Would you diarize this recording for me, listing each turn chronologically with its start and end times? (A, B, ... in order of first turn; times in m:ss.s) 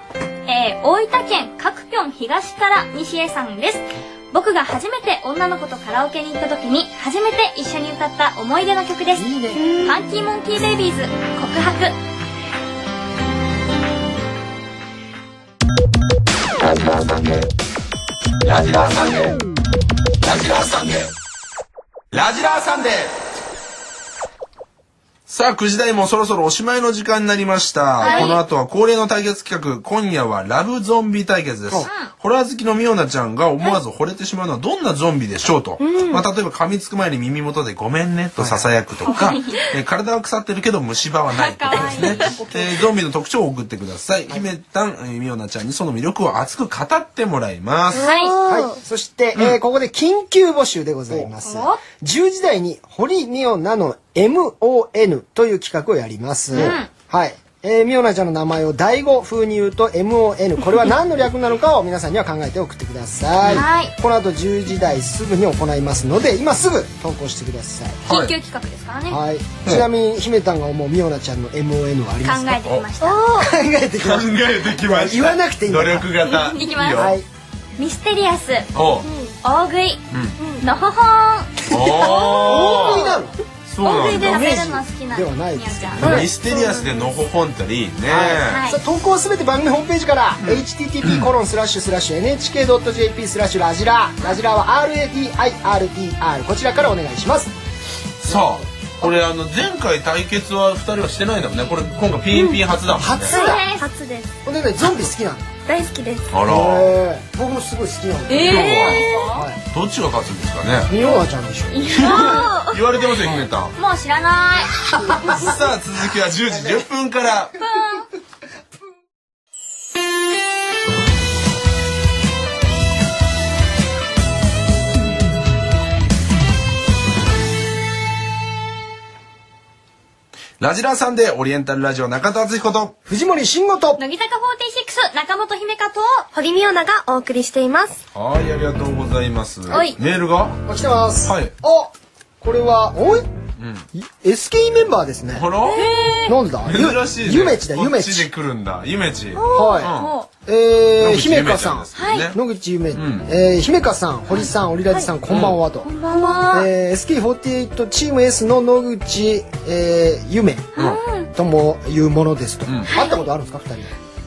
0:00.4-0:09.3 A
0:09.2-0:09.8 B
0:09.5-0:10.0 C
0:09.8-0:11.9 A
0:16.6-0:17.5 D
0:18.4-0:19.4 D
0:20.2-0:21.1 D
0:22.1-0:23.1 D
0:25.3-0:48.1 D
0:28.0-0:28.4 A
0:28.0-0:28.4 C
0:31.8-0:32.1 A
0:35.8-0:36.2 C
0:38.4-0:38.7 B
0:39.0-0:39.6 A
0:41.3-0:42.9 A
0:47.9-0:48.8 C
0:47.9-0:48.4 A
0:48.4-1:08.0 B
0:51.4-0:51.8 A
0:56.5-0:56.9 A
1:03.5-1:03.9 A
1:08.1-1:08.3 D
1:08.1-1:09.2 A
1:09.1-1:12.6 B
1:12.2-1:13.3 A
1:13.0-1:13.5 C
1:13.4-1:16.1 B
1:14.0-1:17.2 D
1:16.3-1:17.1 A
1:16.9-1:17.2 B
1:17.8-1:18.7 A
1:18.7-1:19.1 D
1:19.0-1:19.4 C
1:19.4-1:20.0 A
1:20.1-1:20.4 D
1:20.4-1:20.6 C
1:20.6-1:22.8 A
1:21.7-1:23.1 D
1:21.8-1:23.4 B
1:23.7-1:24.5 D
1:23.8-1:26.0 A
1:24.0-1:26.3 B
1:26.0-1:28.6 D
1:26.0-1:27.2 C
1:28.1-1:37.5 B
1:28.5-1:28.8 A
1:30.4-1:31.3 D
1:38.2-1:43.3 D
1:38.2-1:39.2 B
1:42.3-1:42.6 C
1:42.9-1:43.6 B
1:43.3-1:43.9 A
1:43.3-1:44.3 C
1:44.4-1:45.5 B
1:45.6-1:46.3 C
1:46.3-1:46.9 D
1:46.4-1:49.6 B
1:48.3-1:49.4 A
1:48.4-1:49.0 D
1:49.7-1:50.9 D
1:50.9-1:51.9 B
1:51.0-1:52.6 A
1:51.9-1:53.7 D
1:52.0-1:52.8 C
1:53.8-1:54.8 A
1:54.8-1:55.6 B
1:55.2-1:57.6 D
1:56.5-1:56.8 B
1:57.6-1:58.1 A
2:10.6-2:12.9 D
2:13.1-2:14.0 B
2:14.0-2:16.3 A
2:16.3-2:18.0 C
2:18.1-2:20.6 D
2:19.7-2:20.0 A
2:20.7-2:23.3 B
2:21.2-2:21.5 D
2:23.6-2:23.8 D
2:23.9-2:25.4 B
2:25.3-2:25.9 D
2:25.7-2:26.4 A
2:26.3-2:28.3 B
2:26.6-2:30.1 D
2:29.4-2:29.8 C
2:29.4-2:30.3 A
2:29.5-2:29.9 B
2:30.4-2:35.9 B
2:31.0-2:32.4 D
2:31.9-2:32.3 A
2:32.9-2:33.3 D
2:35.3-2:35.6 D
2:35.8-2:36.7 A
2:36.0-2:36.5 C
2:36.5-2:40.7 B
2:40.7-2:41.3 A
2:41.3-2:43.9 B
2:42.6-2:42.9 D
2:42.9-2:43.2 A